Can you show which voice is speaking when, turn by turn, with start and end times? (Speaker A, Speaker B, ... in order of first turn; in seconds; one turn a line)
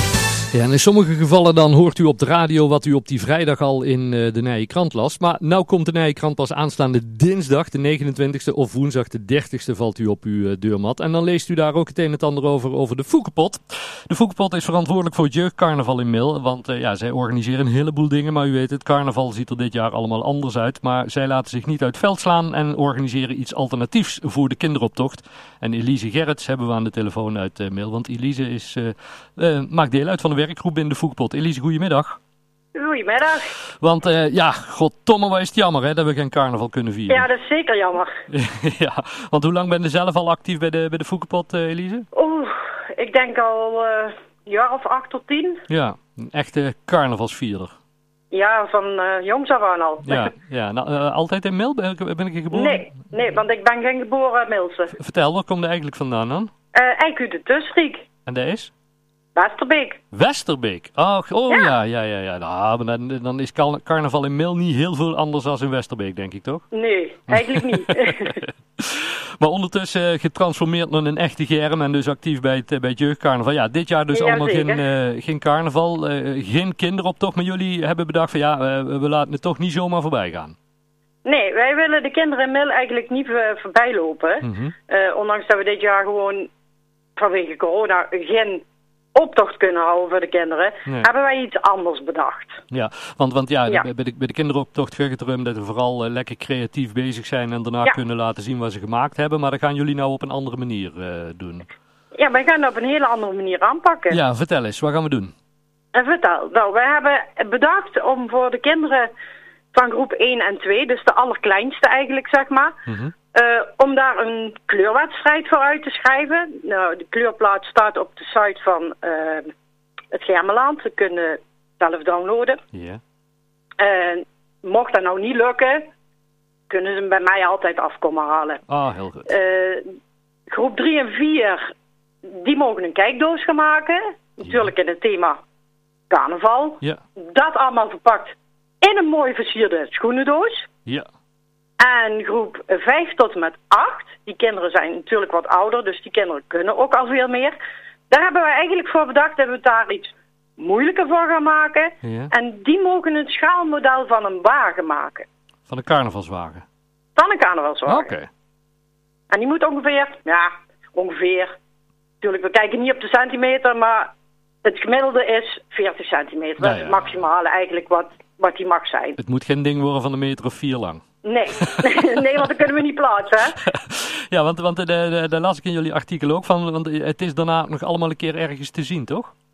Speaker A: 0.5-32.2
Speaker B: 32.8-33.5
Speaker A: 33.8-37.3
Speaker B: 37.1-38.1
Speaker A: 38.3-42.1
Speaker B: 42.1-45.6
Speaker A: 45.7-47.7
Speaker B: 48.3-50.3
Speaker A: 50.0-53.0
Speaker B: 52.5-54.9
Speaker A: 54.9-56.5
Speaker B: 56.7-58.1
Speaker A: 58.3-58.7
Speaker B: 59.4-60.0
Speaker A: 60.1-66.6
Speaker B: 61.5-61.8
Speaker B: 66.7-68.4
Speaker A: 67.3-80.5
Speaker B: 74.1-74.9
Speaker B: 81.2-86.5
Speaker A: 84.4-84.8
Speaker B: 87.2-88.6
Speaker B: 89.2-92.6
Speaker A: 92.7-101.7
Speaker B: 102.1-104.2
Speaker A: 104.1-105.3
Speaker B: 105.9-109.1
Speaker B: 109.7-112.8
Speaker A: 112.9-113.1
Speaker B: 113.3-119.5
Speaker B: 120.1-122.6
Speaker A: 122.7-123.0
Speaker B: 123.8-125.9
Speaker B: 126.7-128.6
Speaker A: 128.7-129.3
Speaker B: 129.3-129.9
Speaker B: 130.5-131.7
Speaker B: 132.2-135.4
Speaker A: 134.4-134.7
Speaker B: 136.1-140.7
Speaker B: 141.8-147.6
Speaker B: 148.1-155.3
Speaker A: 152.0-152.3
Speaker A: 155.7-156.6
Speaker B: 157.2-158.1
Speaker A: 157.9-158.3
Speaker B: 159.3-161.5
Speaker B: 162.2-164.1
Speaker B: 164.6-169.2
Speaker A: 166.6-167.2
Speaker A: 169.2-171.0
Speaker B: 171.2-173.6
Speaker A: 171.6-172.1
Speaker A: 173.6-179.3